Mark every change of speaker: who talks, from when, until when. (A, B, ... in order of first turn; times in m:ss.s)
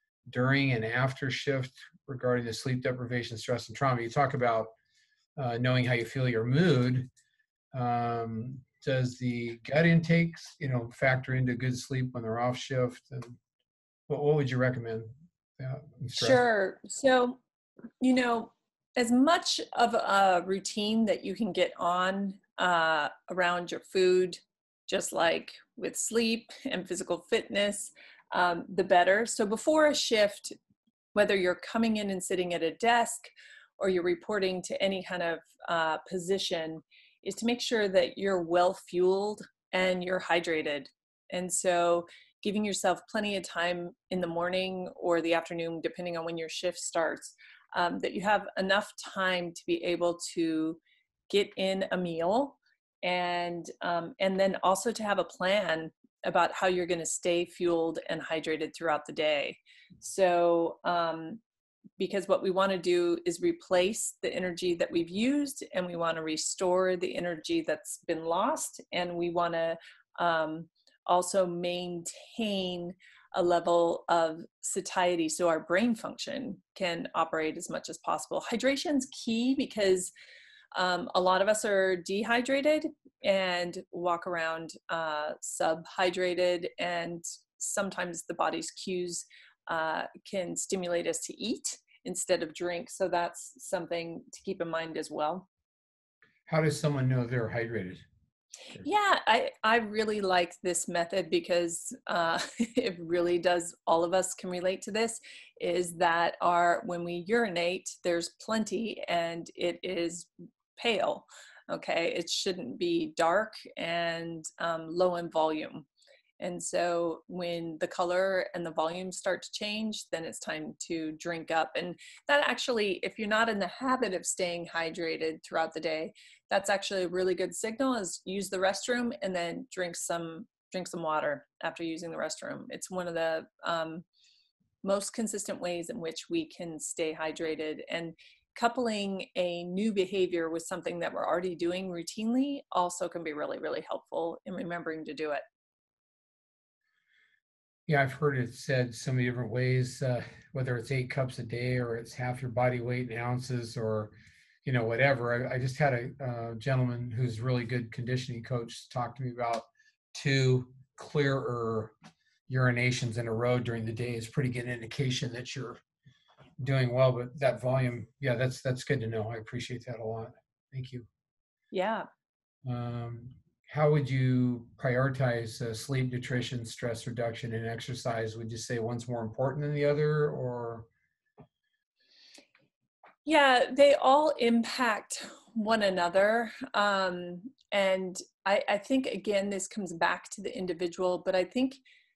0:00.3-0:04.7 A
0:05.4-0:07.1 A
0:07.7-0:13.4 A
0:14.1-0:16.4 A
0:16.2-0:17.4 B
0:18.0-0:30.6 B
0:31.1-1:01.4 B
1:02.0-1:20.1 B
1:20.7-1:35.5 B
1:36.5-1:38.0 A
1:38.8-1:55.8 B
1:56.4-2:14.0 B
2:14.8-2:25.4 B
2:27.9-2:34.1 A
2:34.6-2:41.9 A
2:42.5-2:45.8 A
2:46.6-2:51.1 A
2:51.7-2:52.1 B
2:52.6-3:00.9 A
3:03.2-3:11.8 B